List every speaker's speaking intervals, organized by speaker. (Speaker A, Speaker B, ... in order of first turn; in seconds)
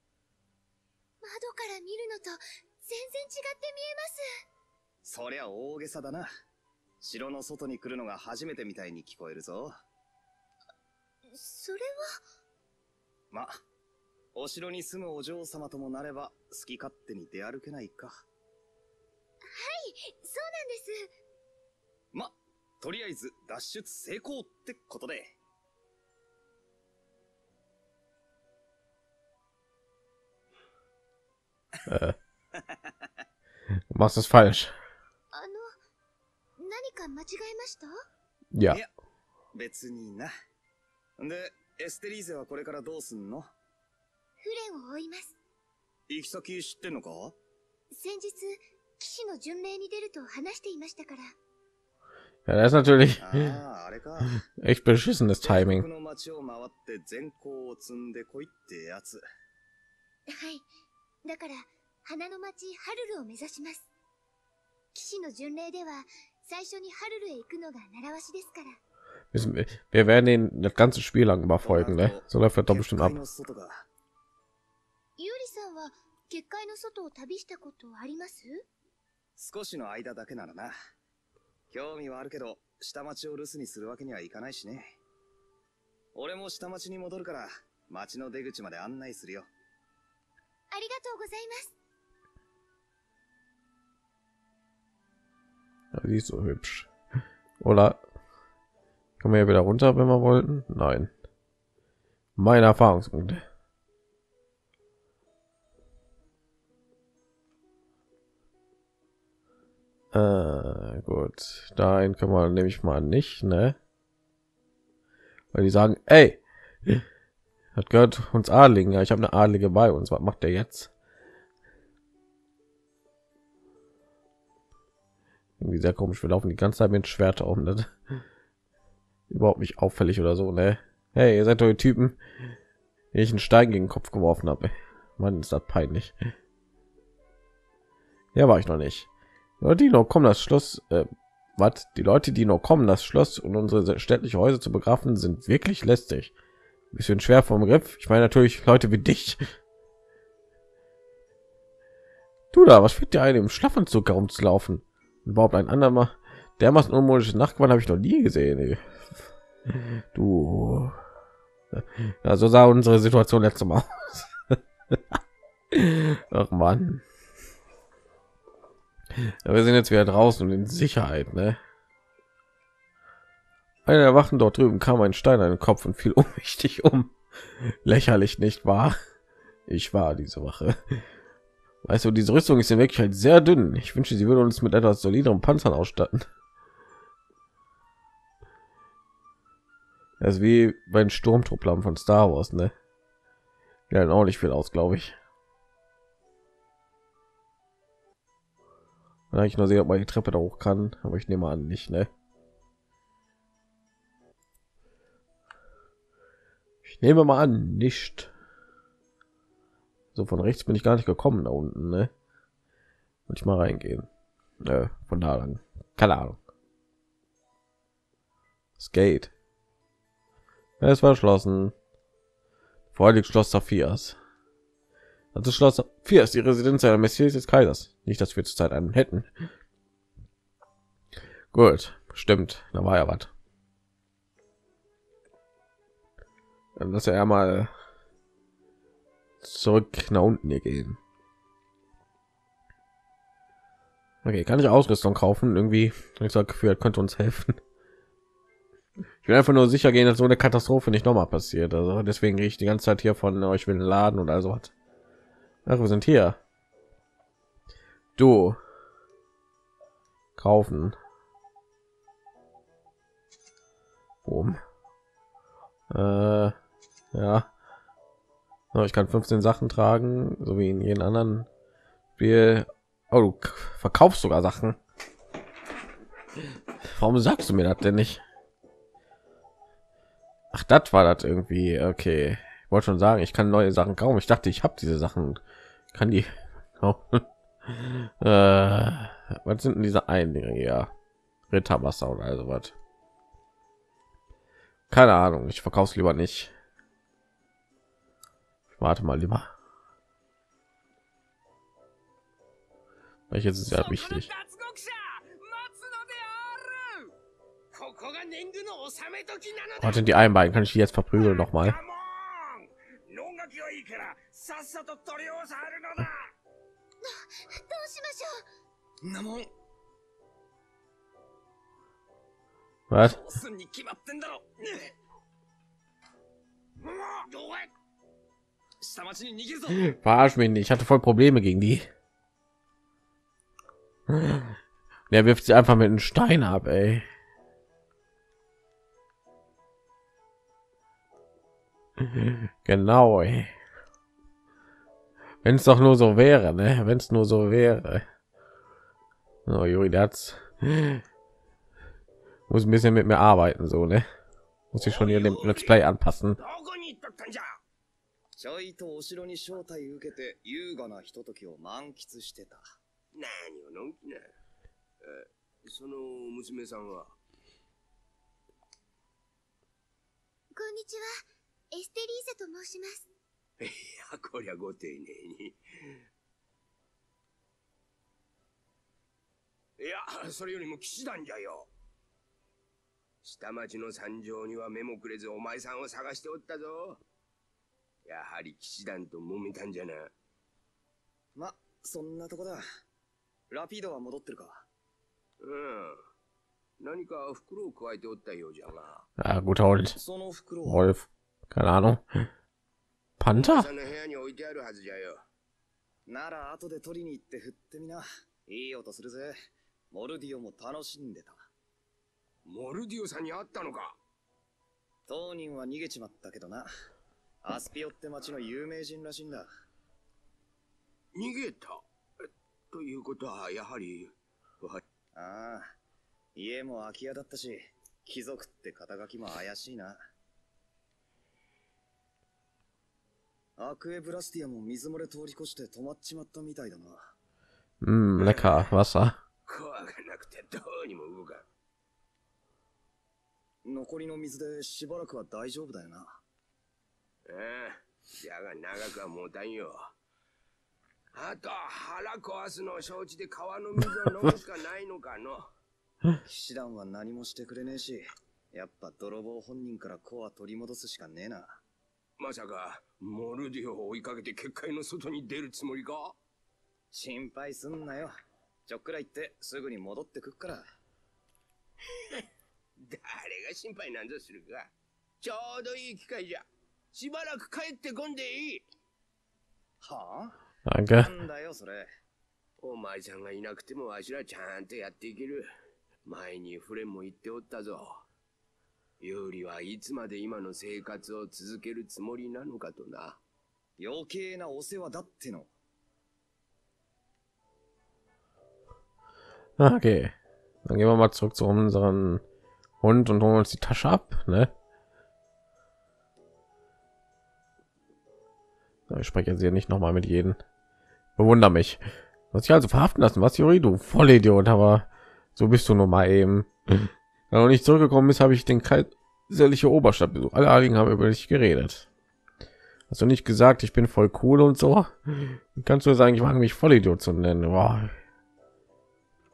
Speaker A: 1.2-4.2, 11.3-12.2, 19.5-21.1, 35.3-35.8, 36.6-38.0, 44.4-45.4, 47.9-51.3, 60.3-60.7, 61.2-63.9, 64.9-68.8, 75.2-78.6, 90.7-91.8, 317.0-318.4, 370.5-373.1
Speaker B: 5.0-6.3, 7.0-9.7, 13.3-13.6, 14.3-18.2, 22.1-25.4, 32.5-32.9, 39.5-40.3, 41.2-43.5, 46.1-47.4, 53.2-54.4, 55.4-59.2, 71.6-73.9, 79.4-80.7, 81.7-85.0, 86.2-89.5, 319.0-319.5, 323.0-324.9, 326.8-327.7, 328.8-329.9, 358.4-362.6, 391.4-392.6, 393.5-394.7, 399.9-400.9, 406.1-409.4, 409.9-411.4, 415.1-416.7, 417.4-419.5, 425.1-425.7, 426.4-430.0, 433.6-437.1, 443.6-446.2, 456.2-461.6, 466.9-468.1, 468.7-470.7, 479.8-480.4, 480.9-481.9, 493.8-495.5
Speaker C: 31.9-32.2, 33.9-34.7, 38.5-38.8, 52.5-53.5, 54.6-55.9, 69.3-73.2, 95.9-96.9, 97.6-98.0, 99.2-101.1, 102.4-103.4, 110.1-113.8, 115.5-117.0, 117.8-120.9, 125.6-127.9, 129.3-132.2, 133.1-136.2, 138.3-139.1, 139.6-146.3, 146.9-149.4, 152.5-159.0, 159.7-161.0, 161.7-165.0, 165.7-167.0, 169.1-171.6, 173.8-179.0, 179.7-181.1, 181.8-186.3, 190.2-192.7, 193.9-195.2, 199.3-202.1, 206.8-208.3, 210.2-212.1, 213.3-214.1, 214.6-216.4, 218.8-219.3, 220.8-221.7, 222.9-224.2, 225.3-229.3, 231.5-233.3, 236.8-237.7, 239.4-241.0, 244.2-247.6, 249.2-254.7, 255.7-256.4, 258.2-258.6, 260.4-261.0, 264.2-264.6, 265.9-266.6, 267.1-267.5, 268.7-271.5, 272.2-274.8, 276.8-278.2, 280.5-285.4, 285.9-290.9, 291.5-292.7, 294.9-296.5, 298.7-299.5, 303.3-304.3, 309.8-311.8, 322.9-323.2, 329.7-331.9, 334.1-334.6, 335.1-337.1, 342.0-343.5, 345.4-348.1, 349.5-351.0, 352.5-354.1, 354.7-356.4, 399.2-400.0, 400.6-402.2, 403.2-403.7, 437.8-439.2, 480.7-481.1, 499.6-500.1, 500.6-502.2, 502.8-504.5, 508.9-510.4, 511.2-521.9, 522.9-528.0
Speaker D: 303.7-307.1, 307.7-310.0, 311.2-316.3, 354.8-355.8, 356.4-357.6, 363.1-364.3, 365.0-367.1, 373.6-376.0, 379.8-381.7, 383.2-387.0, 388.1-390.1, 395.4-396.0, 396.8-399.1, 403.3-405.2, 412.4-414.0, 421.1-424.8, 439.5-441.5, 447.3-449.9, 451.1-455.5, 462.2-466.2, 472.8-474.7, 475.2-478.7, 482.6-485.5, 486.0-488.1, 489.0-493.2